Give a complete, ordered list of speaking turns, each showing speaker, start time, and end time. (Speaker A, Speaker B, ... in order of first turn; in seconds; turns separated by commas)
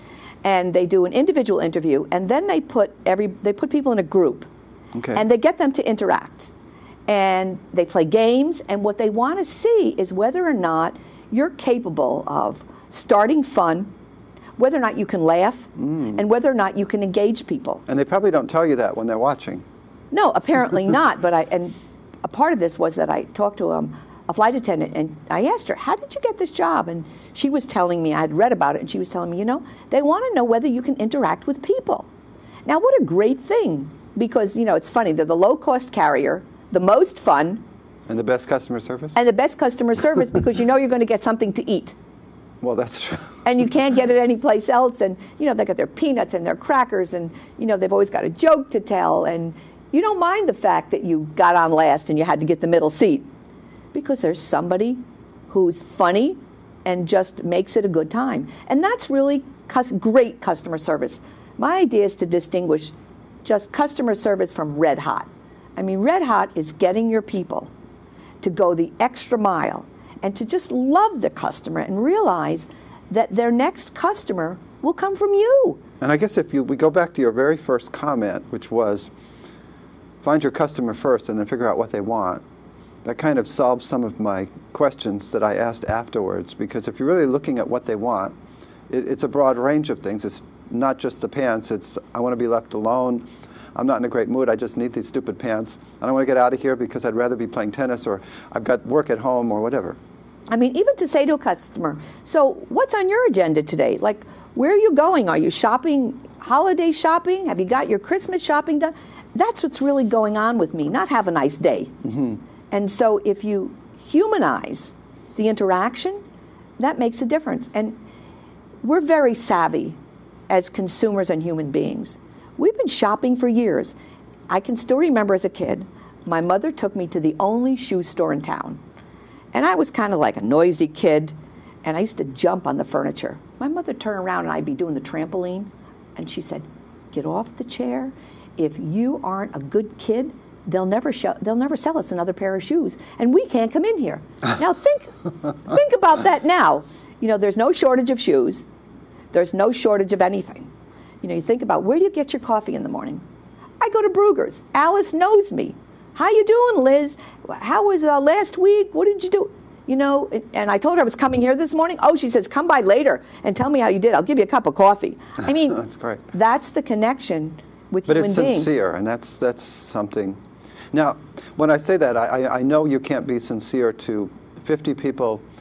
Speaker A: 0.4-4.5, Speaker B: 4.9-5.2, Speaker A: 5.1-6.5, Speaker A: 7.1-13.9, Speaker A: 14.6-17.8, Speaker B: 15.8-16.1, Speaker B: 17.9-19.6, Speaker A: 20.1-32.1, Speaker A: 32.6-37.6, Speaker B: 38.1-39.2, Speaker A: 39.1-42.0, Speaker B: 42.6-43.3, Speaker A: 43.4-53.3, Speaker A: 53.9-62.9, Speaker A: 63.4-67.7, Speaker A: 68.4-75.8, Speaker B: 76.0-79.1, Speaker B: 80.2-82.4, Speaker B: 83.0-88.3, Speaker B: 88.9-93.2, Speaker B: 93.8-100.0, Speaker A: 100.5-112.0, Speaker B: 112.0-112.4, Speaker A: 112.7-116.2, Speaker A: 116.8-118.0, Speaker A: 118.8-120.0, Speaker A: 120.5-123.9, Speaker A: 124.5-128.8, Speaker A: 129.5-148.6, Speaker A: 149.3-150.7, Speaker A: 151.2-153.2, Speaker A: 153.8-168.7, Speaker B: 165.7-166.2, Speaker B: 168.1-170.4, Speaker B: 170.9-175.4